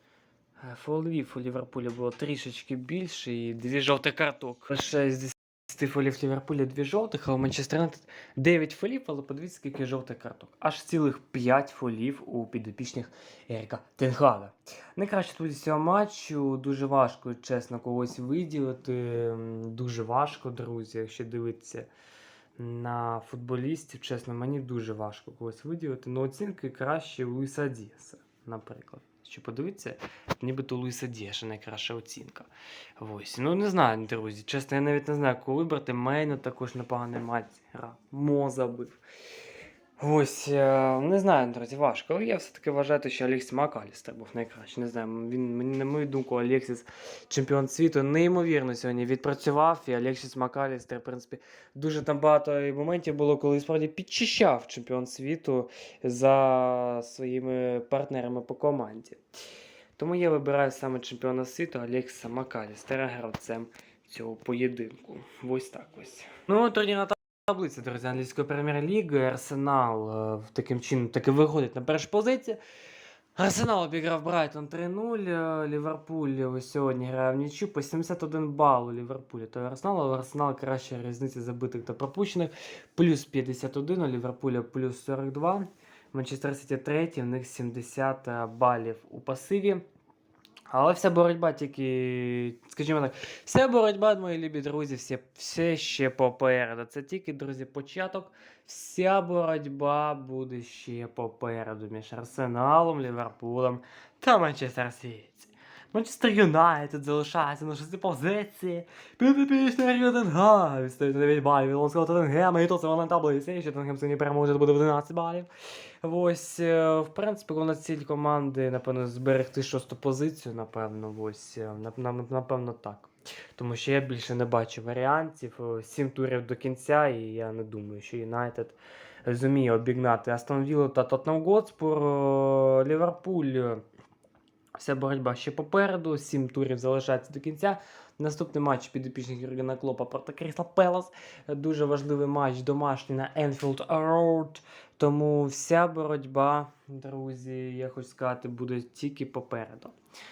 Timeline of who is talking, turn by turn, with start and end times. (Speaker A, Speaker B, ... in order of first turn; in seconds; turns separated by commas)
Speaker A: 0.6-21.9, Speaker A: 22.6-39.0, Speaker A: 40.0-59.2, Speaker A: 60.0-72.6, Speaker A: 73.4-89.8, Speaker A: 90.7-115.5, Speaker A: 116.0-133.8, Speaker A: 134.8-149.9